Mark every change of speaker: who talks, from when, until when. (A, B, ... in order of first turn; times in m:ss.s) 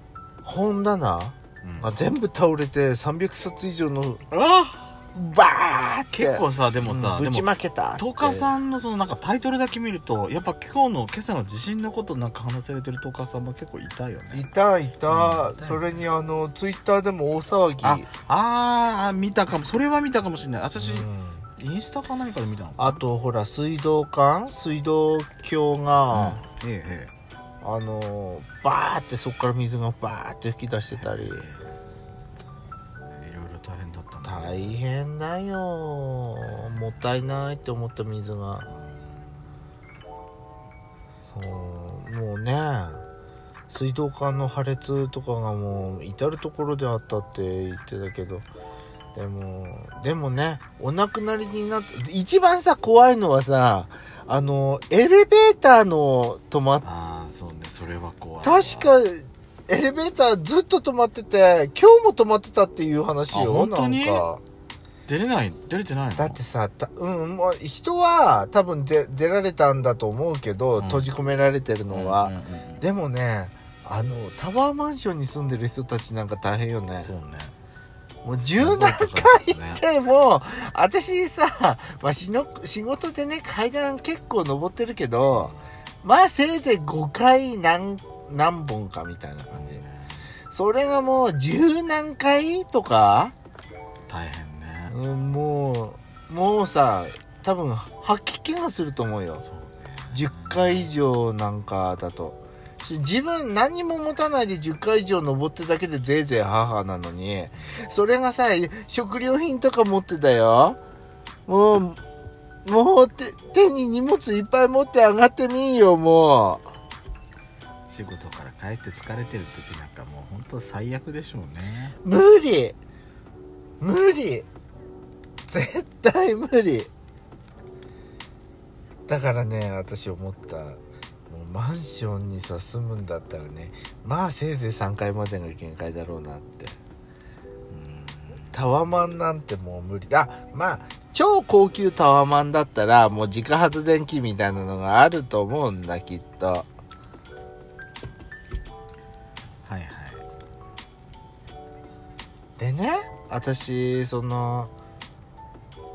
0:00.4-0:04.5 A
0:05.1-0:08.5 A
0:06.1-0:14.5 B
0:14.3-0:18.1 A
0:15.1-0:16.0 B
0:17.8-0:23.0 B
0:20.8-0:21.4 A
0:22.8-0:26.4 A
0:26.1-0:27.1 B
0:27.6-0:31.4 A
0:31.0-0:31.7 B
0:33.0-0:34.8 B
0:34.2-0:38.7 A
0:38.7-0:39.2 B
0:41.3-0:43.0 A
0:43.7-0:48.4 A
0:49.1-0:56.8 A
0:56.8-0:58.9 B
0:58.4-1:04.4 A
1:03.3-1:04.2 B
1:05.1-1:06.4 B
1:06.2-1:17.1 A
1:10.8-1:11.1 B
1:11.9-1:12.8 B
1:17.0-1:17.5 B
1:18.2-1:29.8 A
1:18.5-1:19.8 B
1:25.3-1:25.6 B
1:29.5-1:30.1 B
1:30.5-1:33.3 A
1:34.1-1:34.9 B
1:34.9-1:39.4 A
1:39.4-1:40.9 B
1:40.1-1:50.8 A
1:51.4-1:52.0 A
1:52.6-1:56.7 A
1:57.9-2:01.9 B
2:02.0-2:02.8 A
2:03.8-2:04.4 A
2:05.5-2:06.9 A
2:09.1-2:16.8 A
2:17.7-2:18.5 B
2:18.5-2:26.7 A
2:29.6-2:30.2 B
2:32.6-2:34.7 A